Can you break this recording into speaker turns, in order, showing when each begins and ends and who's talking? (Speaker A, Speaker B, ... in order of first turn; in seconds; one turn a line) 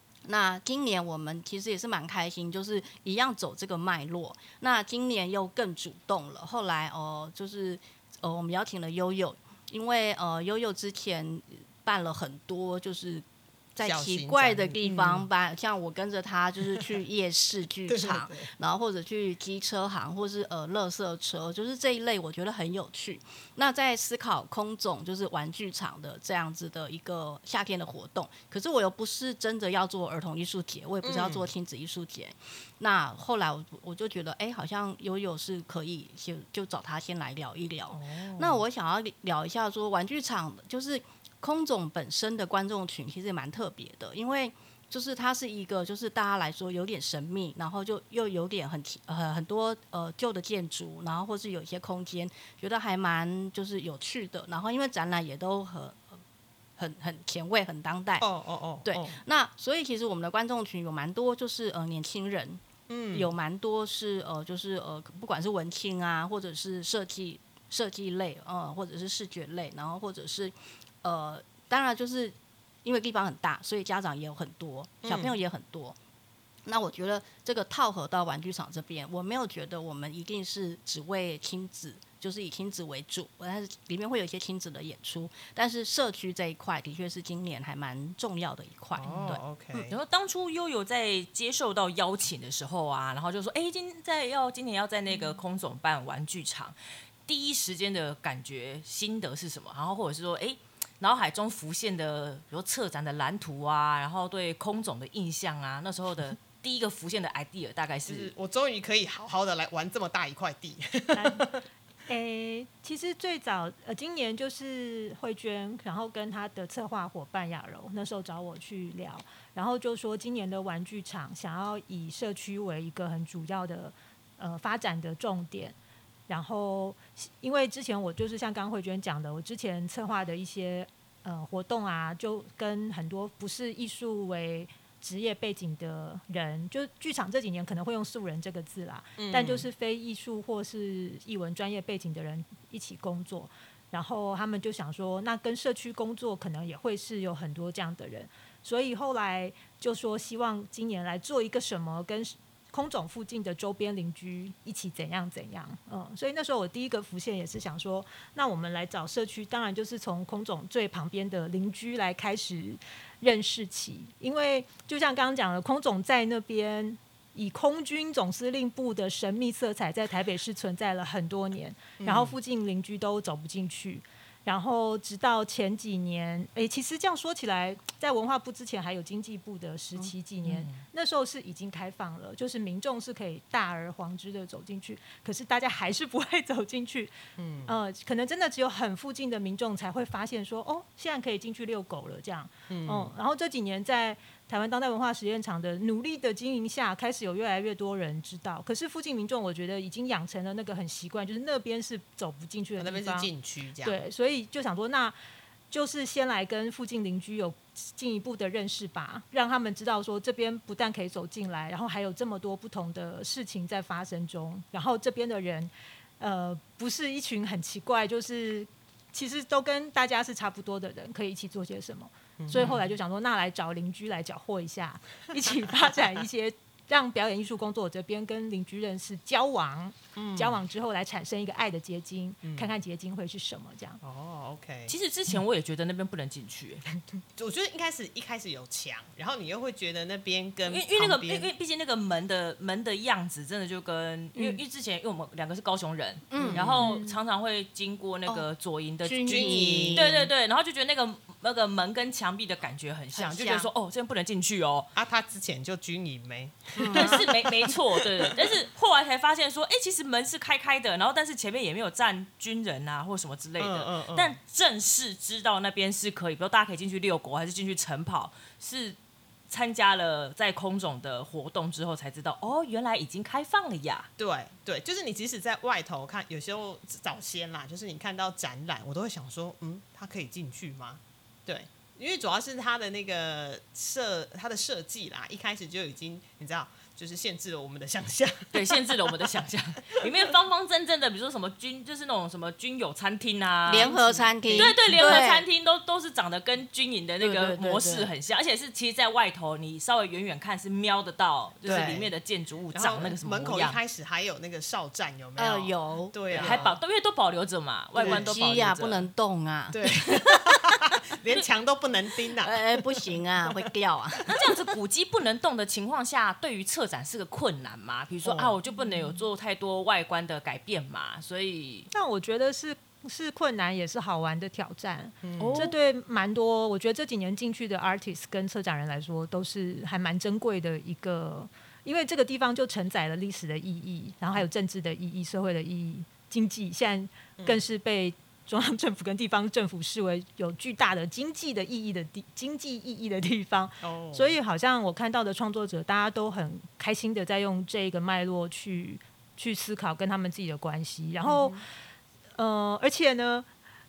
Speaker A: 0.2-56.1
Speaker B: 13.8-15.2
Speaker B: 17.9-18.5
Speaker B: 31.0-31.5
Speaker B: 37.9-38.6
Speaker A: 56.8-58.2
Speaker B: 58.2-59.2
Speaker A: 58.8-76.0
Speaker B: 62.9-63.3
Speaker B: 75.0-75.3
Speaker A: 76.7-89.9
Speaker B: 89.0-89.9
Speaker C: 89.9-96.7
Speaker C: 97.3-108.3
Speaker B: 108.0-111.6
Speaker D: 111.1-111.5
Speaker D: 112.1-125.7
Speaker D: 126.3-187.1
Speaker B: 139.2-139.7
Speaker B: 172.0-172.4
Speaker C: 180.4-180.8
Speaker B: 187.4-187.7
Speaker D: 187.6-203.3
Speaker B: 192.7-193.1
Speaker B: 202.8-204.0
Speaker D: 203.8-205.1
Speaker D: 205.7-234.0
Speaker B: 222.4-222.8
Speaker B: 230.2-230.6
Speaker B: 232.4-232.7
Speaker B: 234.0-234.9
Speaker C: 234.9-236.8
Speaker B: 237.3-241.5
Speaker C: 240.7-254.9
Speaker A: 246.3-246.7
Speaker B: 246.3-247.0
Speaker D: 246.8-247.2
Speaker A: 249.0-250.3
Speaker B: 249.3-250.1
Speaker A: 253.1-253.7
Speaker B: 254.9-258.6
Speaker A: 256.8-257.3
Speaker C: 256.9-269.0
Speaker B: 263.6-264.4
Speaker C: 269.5-274.1
Speaker B: 274.2-289.3
Speaker C: 288.5-303.8
Speaker A: 293.7-295.4
Speaker B: 294.5-295.2
Speaker A: 297.2-298.1
Speaker B: 301.6-302.1
Speaker B: 302.7-306.8
Speaker A: 305.4-306.6
Speaker C: 306.3-309.1
Speaker B: 307.9-308.3
Speaker A: 308.0-310.4
Speaker B: 309.7-312.8
Speaker A: 312.4-314.3
Speaker C: 314.3-321.9
Speaker B: 318.2-318.6
Speaker D: 318.8-319.2
Speaker D: 321.9-351.6
Speaker B: 325.2-325.6
Speaker C: 325.4-325.7
Speaker A: 325.4-325.6
Speaker B: 337.4-337.6
Speaker B: 343.8-344.4
Speaker B: 351.2-351.6
Speaker D: 352.4-353.5